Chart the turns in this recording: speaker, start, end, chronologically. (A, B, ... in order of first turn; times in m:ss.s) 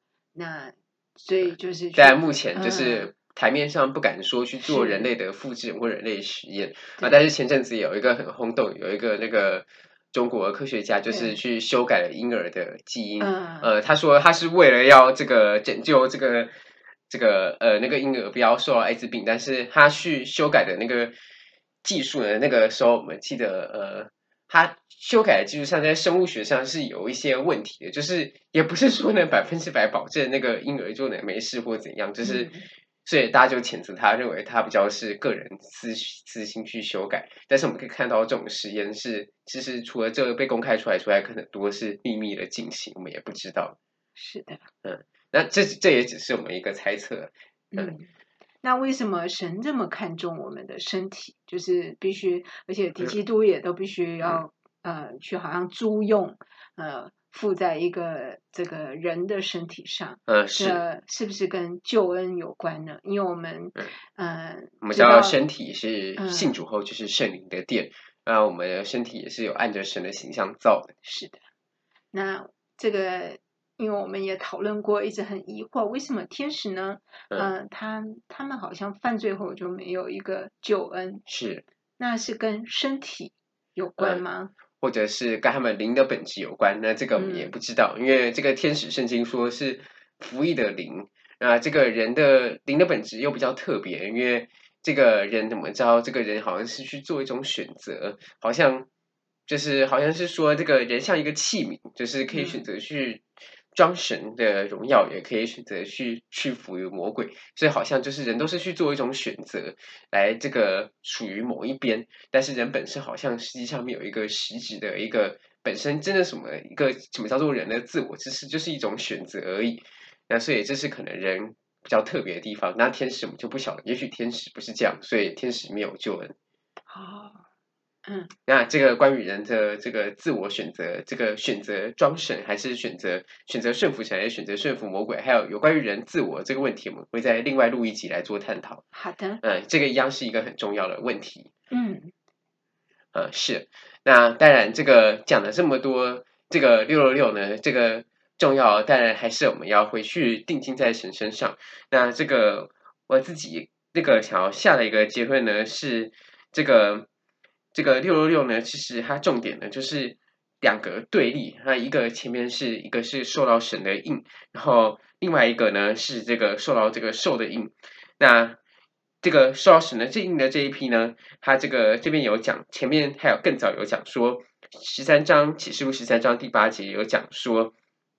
0:00.3-0:03.1 A
0:02.0-0:16.5 B
0:04.6-0:05.1 A
0:11.1-0:11.4 A
0:13.2-0:13.7 A
0:17.1-0:21.1 B
0:21.8-0:32.5 B
0:32.2-0:32.7 A
0:33.0-0:43.8 B
0:44.2-0:44.7 A
0:44.8-0:47.9 B
0:47.7-0:48.1 A
0:48.6-1:05.4 A
1:00.3-1:00.8 B
1:04.8-1:10.9 B
1:06.2-1:06.5 A
1:11.0-1:11.4 A
1:12.1-1:21.2 A
1:21.3-1:21.6 B
1:22.0-1:24.5 A
1:24.8-1:38.8 B
1:27.2-1:27.5 A
1:39.5-2:06.3 B
1:42.3-1:42.6 A
2:06.9-2:07.4 A
2:08.0-2:08.3 A
2:08.5-2:18.8 B
2:18.9-2:19.4 A
2:19.4-2:21.5 B
2:21.7-2:22.1 A
2:23.1-2:37.0 B
2:37.7-2:48.6 B
2:49.2-2:57.7 B